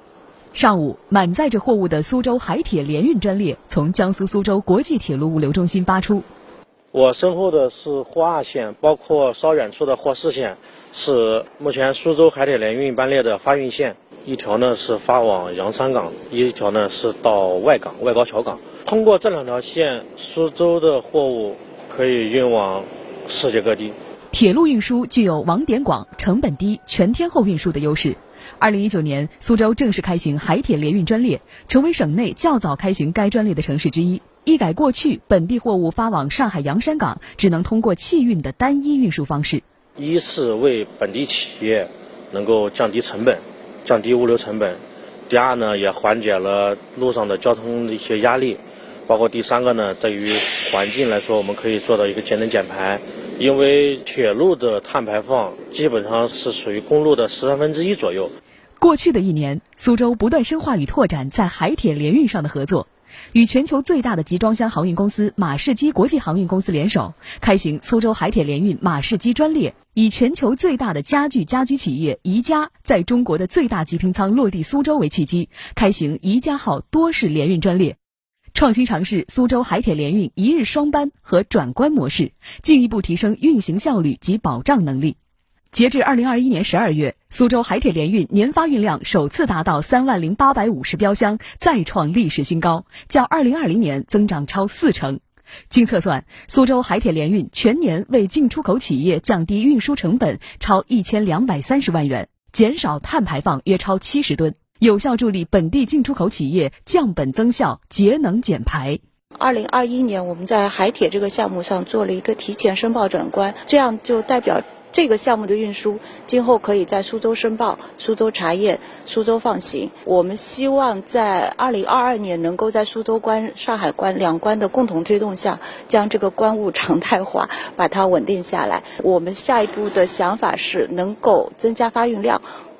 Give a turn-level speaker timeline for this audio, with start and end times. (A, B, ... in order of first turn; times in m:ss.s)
0:00.5-0:06.3 A
0:06.9-0:24.0 B
0:24.3-0:39.6 A
0:40.0-0:58.3 B
0:58.8-1:18.0 A
1:18.5-1:25.2 A
1:25.7-1:49.0 A
1:49.4-2:12.4 C